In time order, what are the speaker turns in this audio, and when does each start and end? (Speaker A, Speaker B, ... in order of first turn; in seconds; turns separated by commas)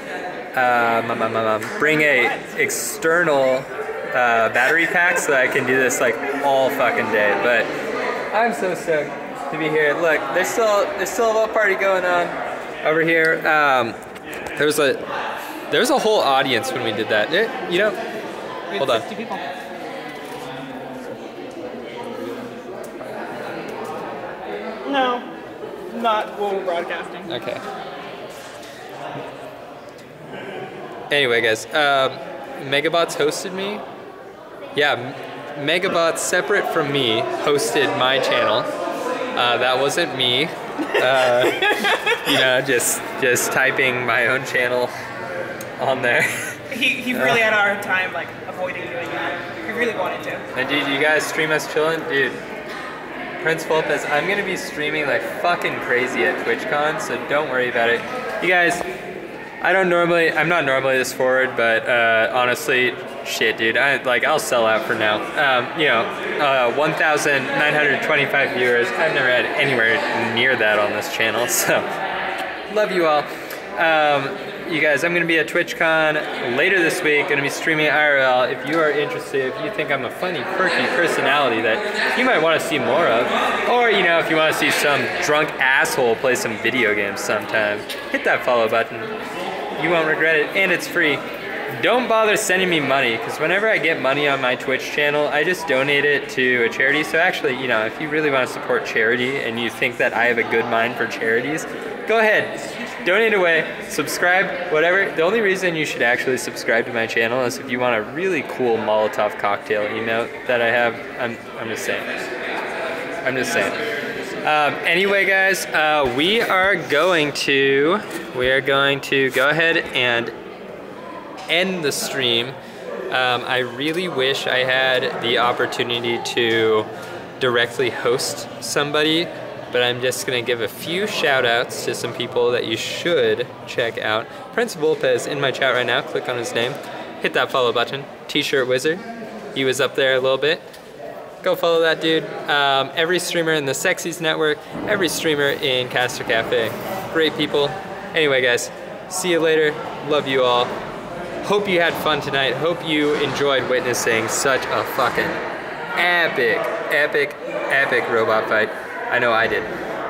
Speaker A: 0.5-7.7, Speaker B: 1.8-2.4, Speaker A: 8.3-14.0, Speaker A: 14.6-15.0, Speaker A: 15.7-18.0, Speaker B: 18.7-19.5, Speaker A: 18.8-19.1, Speaker B: 24.8-25.3, Speaker B: 25.9-27.3, Speaker A: 27.3-27.6, Speaker A: 31.1-33.8, Speaker A: 34.7-38.7, Speaker A: 39.3-44.9, Speaker B: 41.3-42.2, Speaker A: 45.8-47.5, Speaker B: 46.7-50.5, Speaker A: 50.5-52.4, Speaker A: 53.4-58.8, Speaker A: 59.6-71.9, Speaker A: 72.7-89.1, Speaker A: 89.8-112.2, Speaker A: 113.2-113.8, Speaker A: 114.4-120.3, Speaker A: 121.5-122.6, Speaker A: 123.1-140.6, Speaker A: 141.4-150.7, Speaker A: 151.4-155.4, Speaker A: 155.9-159.7